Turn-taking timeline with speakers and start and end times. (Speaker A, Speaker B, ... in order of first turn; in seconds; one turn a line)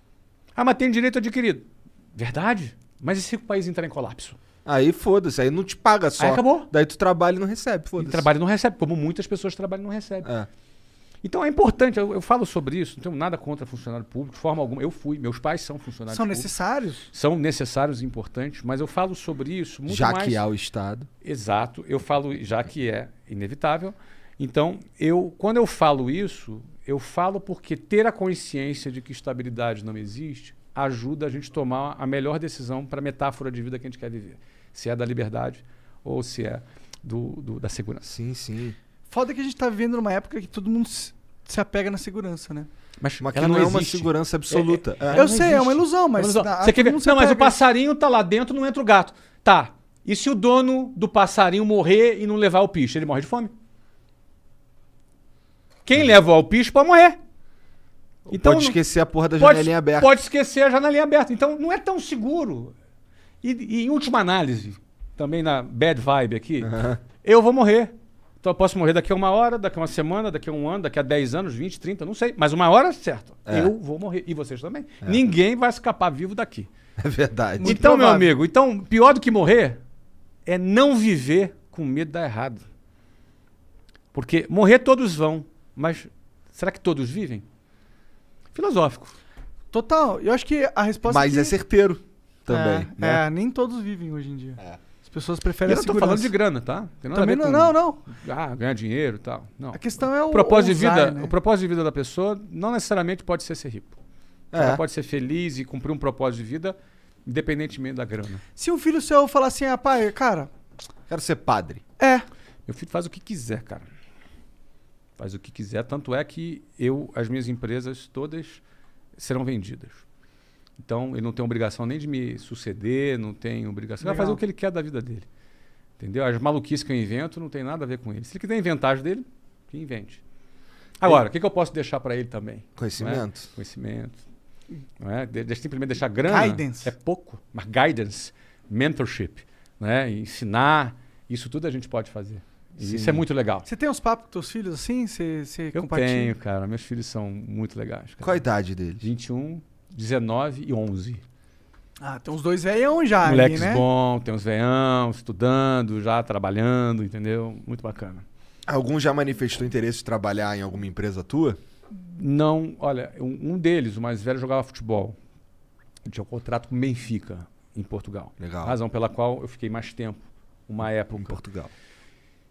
Speaker A: 0.6-4.4
Speaker B: 4.6-8.3
Speaker A: 6.2-6.7
Speaker A: 8.0-10.3
Speaker A: 11.2-16.5
Speaker C: 16.1-17.1
Speaker A: 17.1-20.4
Speaker B: 19.9-21.1
Speaker A: 21.2-38.1
Speaker B: 38.0-38.8
Speaker C: 39.1-42.7
Speaker A: 43.0-53.5
Speaker B: 43.2-45.2
Speaker C: 45.1-47.6
Speaker A: 55.8-57.2
Speaker B: 58.3-60.1
Speaker A: 58.3-58.8
Speaker A: 59.4-62.7
Speaker A: 63.4-76.7
Speaker B: 66.6-67.0
Speaker B: 73.5-73.7
Speaker B: 77.0-77.8
Speaker C: 77.6-78.3
Speaker A: 77.6-79.8
Speaker A: 80.5-82.6
Speaker A: 84.1-87.4
Speaker A: 88.5-89.1
Speaker C: 89.7-91.5
Speaker B: 91.0-93.2
Speaker C: 92.5-96.3
Speaker A: 95.7-104.0
Speaker C: 97.1-98.0
Speaker C: 99.7-101.3
Speaker B: 104.5-104.8
Speaker A: 104.5-108.4
Speaker C: 108.5-110.5
Speaker B: 111.1-111.8
Speaker C: 112.0-112.2
Speaker A: 112.7-113.9
Speaker A: 115.2-118.6
Speaker A: 119.2-120.0
Speaker A: 120.8-125.2
Speaker C: 124.0-124.4
Speaker A: 126.0-130.2
Speaker A: 131.0-134.2
Speaker B: 132.8-133.5
Speaker A: 135.0-143.7
Speaker C: 136.2-136.9
Speaker B: 142.8-143.2
Speaker C: 143.6-146.3
Speaker A: 145.7-148.4
Speaker B: 148.2-149.0
Speaker A: 149.0-151.2
Speaker C: 152.0-153.8
Speaker A: 153.2-158.2
Speaker B: 158.7-161.6
Speaker A: 161.9-165.2
Speaker A: 166.1-171.4
Speaker B: 168.4-168.8
Speaker B: 171.2-171.7